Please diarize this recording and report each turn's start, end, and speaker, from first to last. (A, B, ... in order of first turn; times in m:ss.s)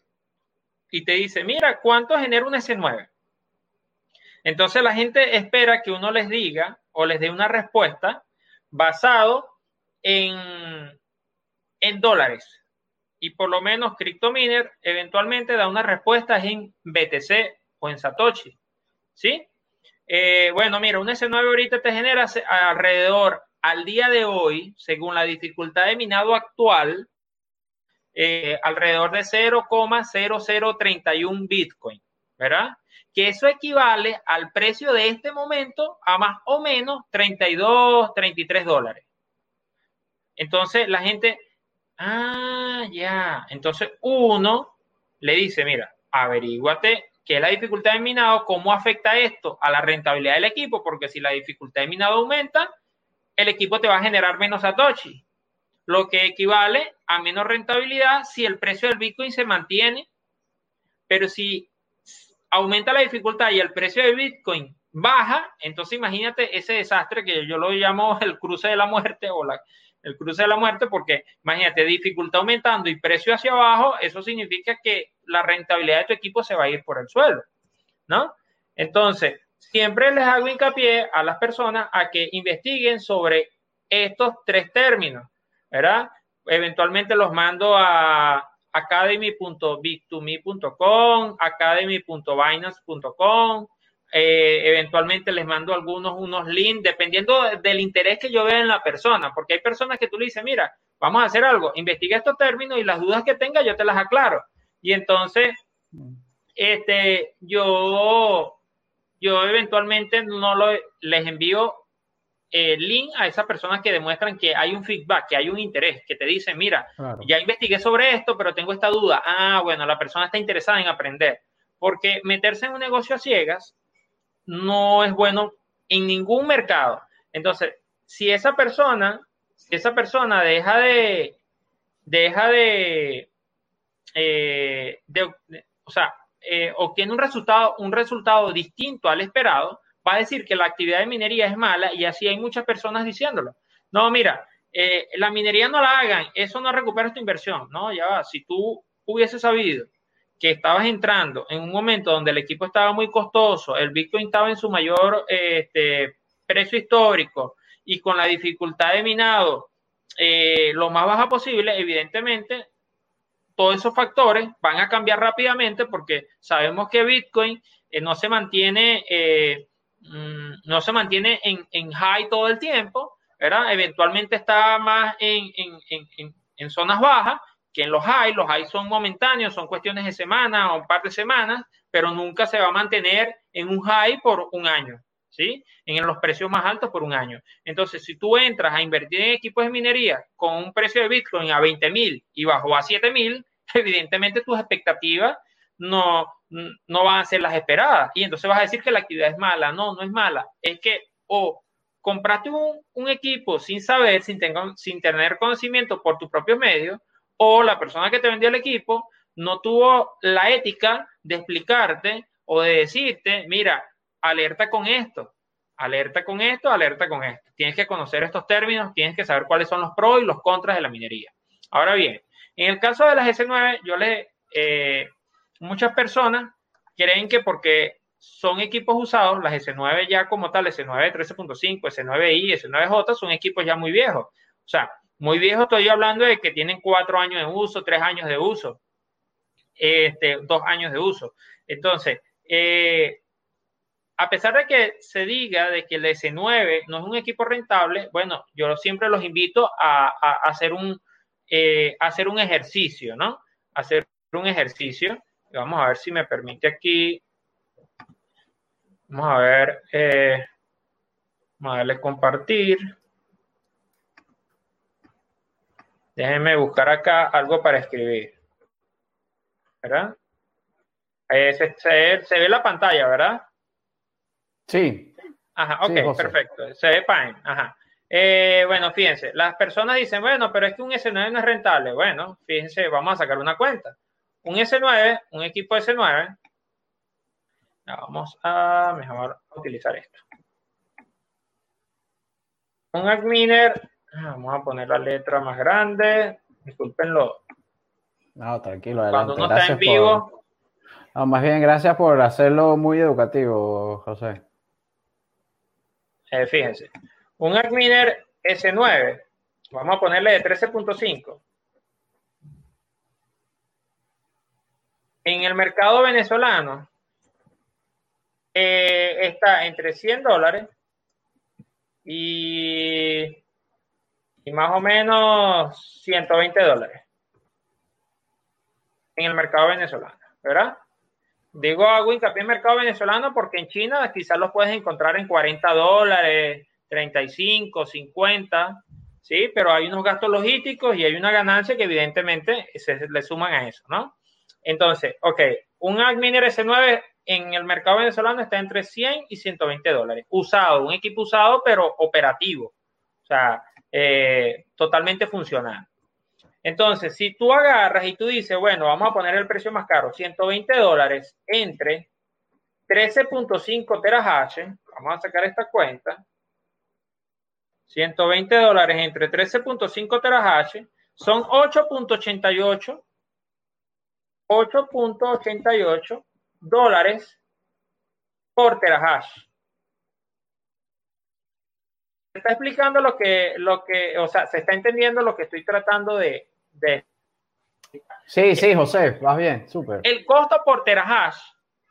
0:00.9-0:03.1 A
0:04.4-0:11.0 A
0:11.8-0:12.6 A
0:13.2-0:18.6 A
0:19.2-0:19.5 A
0:20.1-0:27.1 A
0:28.1-0:39.0 A
0:40.4-0:41.4 A
0:42.0-0:52.7 A
0:53.4-0:55.2 A
0:55.9-1:00.1 A
1:01.1-1:17.4 A
1:18.1-1:45.6 A
1:45.9-1:46.2 B
1:46.6-1:48.6 A
1:49.2-1:51.8 A
1:52.5-2:03.8 A
1:57.0-1:57.3 B
2:04.5-2:11.4 A
2:12.1-2:13.3 A
2:14.2-2:29.9 A
2:30.4-2:42.7 A
2:43.6-3:45.1 A
3:45.6-3:58.8 A
3:59.8-4:03.2 A
4:04.2-4:17.2 A
4:19.1-4:20.5 A
4:21.6-4:22.9 A
4:26.2-4:28.3 A
4:29.8-4:30.2 A
4:31.3-4:33.4 A
4:34.7-4:35.1 B
4:35.6-4:46.4 A
4:35.8-4:36.4 B
4:47.9-4:50.2 A
4:52.9-4:57.4 A
4:58.4-5:00.2 B
4:59.1-5:00.3 A
5:01.2-5:04.4 B
5:06.3-5:11.4 A
5:15.2-5:16.9 A
5:18.5-5:20.7 A
5:22.0-5:23.4 A
5:24.4-5:27.0 A
5:29.2-5:30.8 A
5:31.6-5:52.7 A
5:53.3-5:55.9 A
5:56.6-6:02.1 A
6:02.9-6:06.2 A
6:07.9-6:13.0 A
6:14.5-6:17.4 A
6:18.6-6:19.5 A
6:22.4-6:27.0 A
6:28.3-6:30.0 B
6:30.0-6:31.6 A